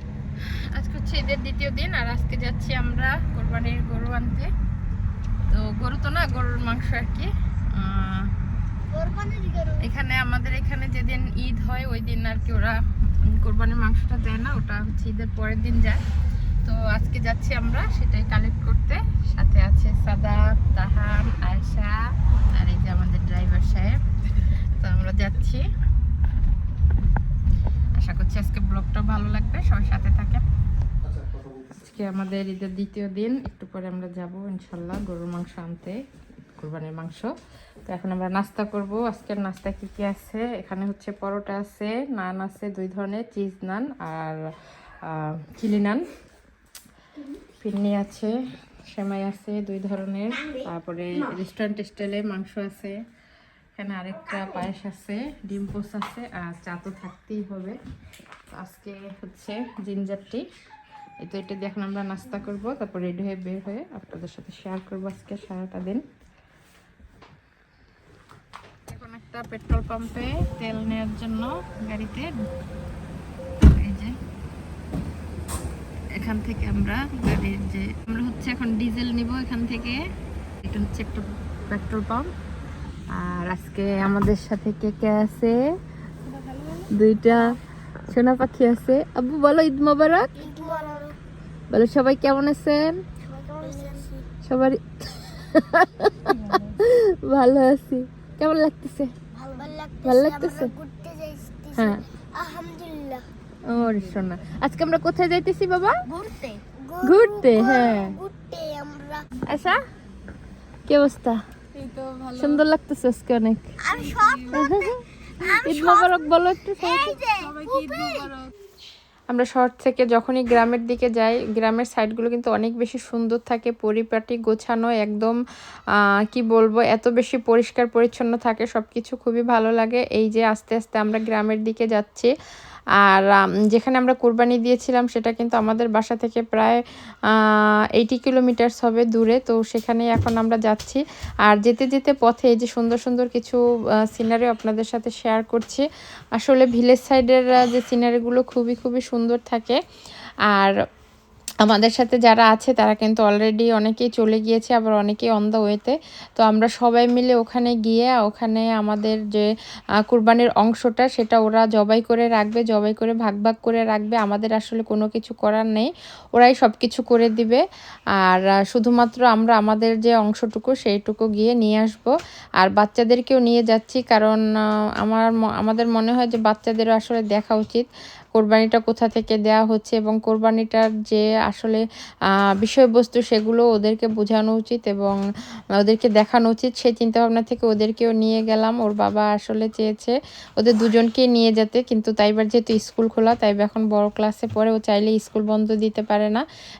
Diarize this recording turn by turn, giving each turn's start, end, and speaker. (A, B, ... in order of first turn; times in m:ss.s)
0:00.7-0:04.5 A
0:05.5-0:08.3 A
0:08.9-0:09.8 B
0:09.8-0:16.0 A
0:16.6-0:22.0 A
0:22.5-0:24.0 A
0:24.8-0:25.6 A
0:28.0-0:30.4 A
0:31.7-0:36.0 A
0:36.6-0:37.3 A
0:37.8-0:44.4 A
0:45.0-0:46.0 A
0:47.6-0:48.3 A
0:48.9-0:53.0 A
0:53.8-0:57.8 A
0:58.5-1:00.4 A
1:01.2-1:06.0 A
1:08.9-1:12.3 A
1:13.6-1:14.2 A
1:16.1-1:20.1 A
1:20.6-1:22.3 A
1:23.1-1:25.7 A
1:26.9-1:27.6 A
1:28.1-1:30.4 A
1:30.4-1:31.2 B
1:31.7-1:33.0 A
1:33.2-1:34.1 B
1:34.4-1:39.1 A
1:39.3-1:43.2 B
1:40.0-1:40.7 A
1:41.8-1:42.0 A
1:43.6-1:46.0 A
1:46.0-1:49.3 B
1:47.0-1:48.2 A
1:49.4-1:49.8 A
1:50.9-1:58.5 A
1:53.8-1:56.2 B
1:56.8-1:58.3 B
1:59.3-2:05.4 A
2:06.3-2:12.3 A
2:13.0-2:16.8 A
2:17.3-2:25.8 A
2:26.4-2:29.8 A
2:31.6-2:39.5 A
2:40.0-2:47.6 A
2:48.2-2:54.4 A
2:55.0-3:01.8 A
3:02.4-3:05.2 A
3:05.8-3:16.4 A